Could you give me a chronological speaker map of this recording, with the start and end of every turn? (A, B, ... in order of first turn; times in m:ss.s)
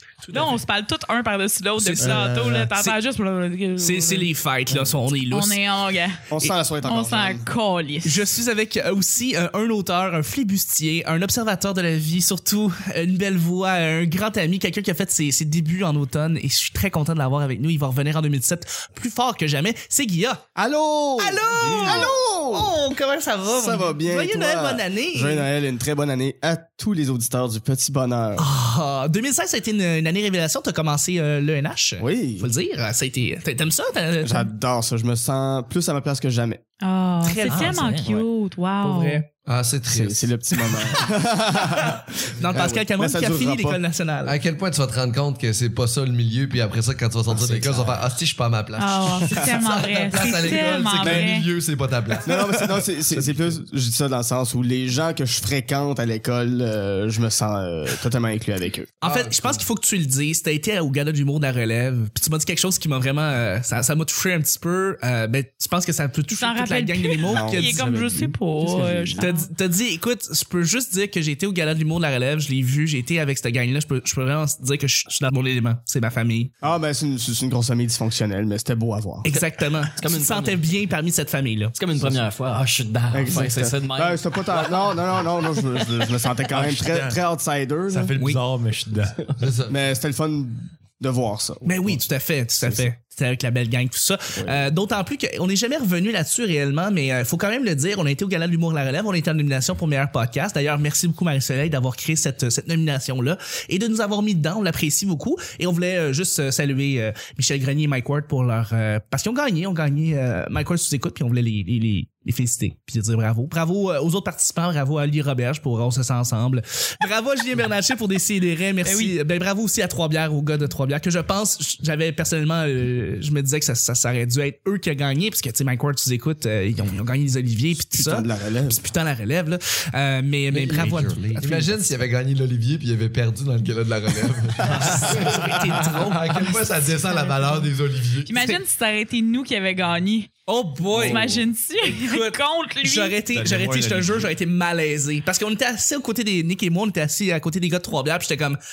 0:00.2-0:00.6 A
0:00.3-0:04.3 B
0:01.8-0:03.0 A
0:02.0-0:02.7 C
0:03.8-0:05.6 A
0:05.2-0:06.2 B
0:06.3-0:07.5 D
0:06.8-0:08.2 B
0:08.0-0:20.4 A
0:20.5-0:22.7 D
0:21.2-0:25.5 A
0:21.6-0:22.1 C
0:23.5-0:28.5 D
0:28.4-0:34.5 A
0:32.0-0:32.5 D
0:34.2-0:36.6 D
0:36.8-0:39.3 B
0:37.2-0:38.0 A
0:37.5-0:38.2 E
0:38.8-0:39.2 A
0:39.4-0:40.2 F
0:39.9-0:43.8 D
0:41.7-0:44.4 A
0:44.2-0:52.4 F
0:47.3-0:48.0 D
0:48.8-0:51.5 B
0:52.2-0:58.9 D
0:59.0-1:07.8 A
0:59.0-0:59.6 F
1:06.3-1:09.5 B
1:07.2-1:09.2 D
1:09.2-1:16.5 A
1:16.6-1:19.2 D
1:19.2-1:21.7 A
1:19.9-1:20.7 E
1:21.8-1:25.6 E
1:23.1-1:28.1 D
1:26.5-1:27.2 C
1:27.9-1:29.3 C
1:28.2-1:28.4 A
1:29.4-1:29.8 F
1:29.7-1:32.0 D
1:31.6-2:11.4 A
1:32.6-1:32.9 D
1:34.3-1:34.7 D
1:58.8-1:59.1 B
2:07.9-2:08.8 D
2:10.5-2:18.6 F
2:10.8-2:11.8 C
2:14.7-2:16.4 A
2:17.0-2:17.7 B
2:18.2-2:20.4 B
2:20.5-2:28.6 A
2:20.9-2:23.2 B
2:20.9-2:21.3 C
2:23.2-2:24.3 C